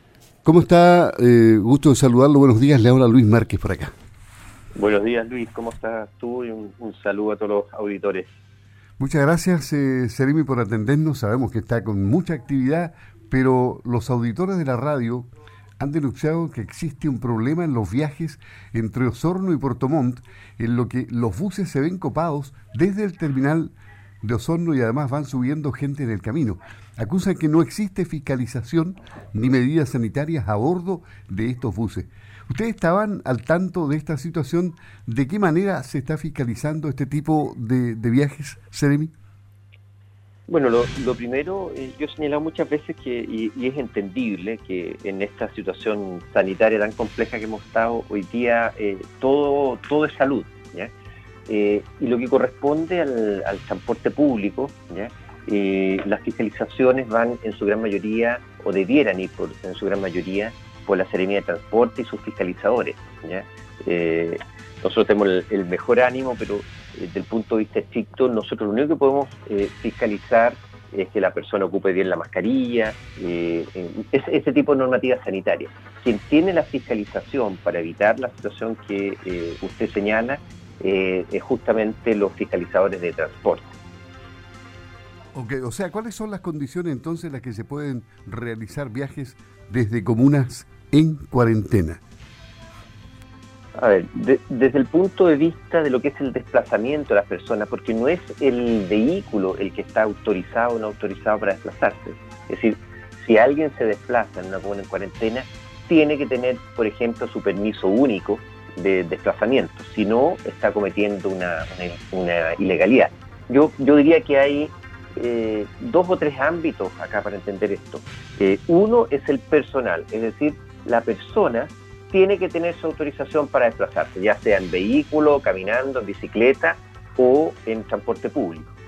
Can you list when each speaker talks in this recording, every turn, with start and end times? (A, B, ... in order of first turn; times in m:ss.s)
0:00.4-0:03.9 A
0:04.7-0:08.3 B
0:09.0-0:15.3 A
0:15.8-0:39.1 A
0:40.5-0:50.9 B
0:51.5-1:23.7 B
1:25.3-1:32.0 A
1:33.8-2:08.7 B